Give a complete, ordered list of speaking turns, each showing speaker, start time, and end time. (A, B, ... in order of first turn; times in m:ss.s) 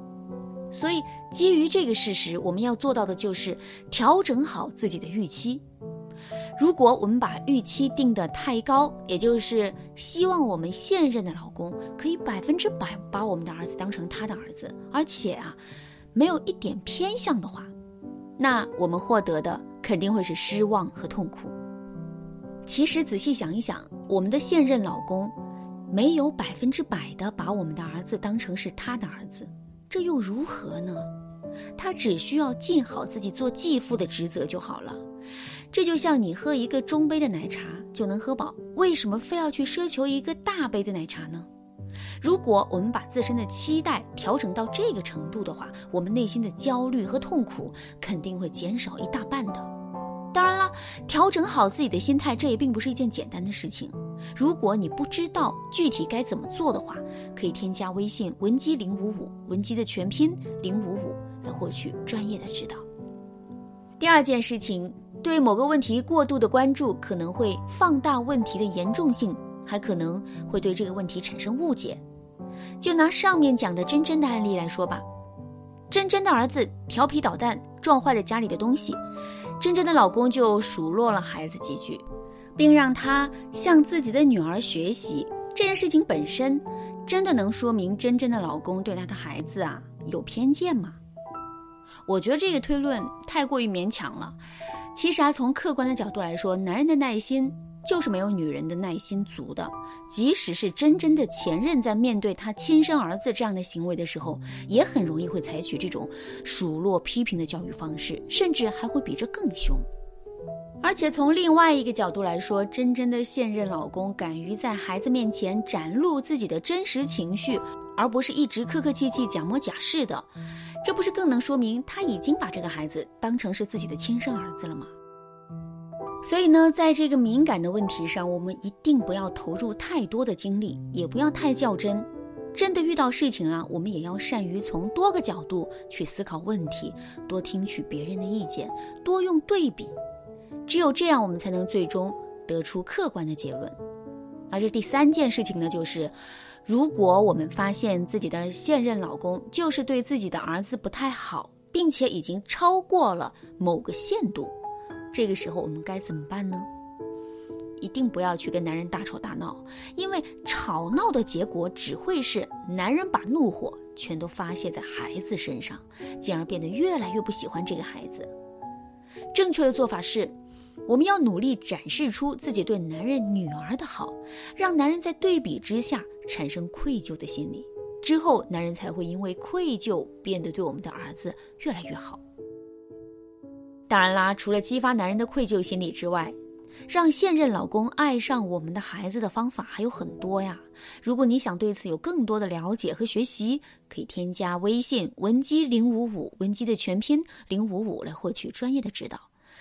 0:00.7-0:05.6 A
0:06.6-0:15.6 A
0:16.1-0:17.7 A
0:18.4-0:21.5 A
0:22.6-0:25.3 A
0:25.9-0:31.1 A
0:31.8-0:35.0 A
0:35.7-0:41.5 A
0:42.2-0:49.7 A
0:50.3-1:02.8 A
1:04.0-1:12.0 A
1:12.8-1:15.0 A
1:15.9-1:19.0 A
1:19.6-1:22.0 A
1:22.6-1:31.0 A
1:32.0-1:34.4 A
1:34.9-1:49.9 A
1:50.8-2:00.3 A
2:00.8-2:04.9 A
2:06.2-2:20.0 A
2:20.6-2:23.8 A
2:24.5-2:34.5 A
2:35.1-2:36.7 A
2:37.8-2:48.3 A
2:49.3-2:50.3 A
2:50.9-3:02.2 A
3:03.9-3:06.4 A
3:06.9-3:19.3 A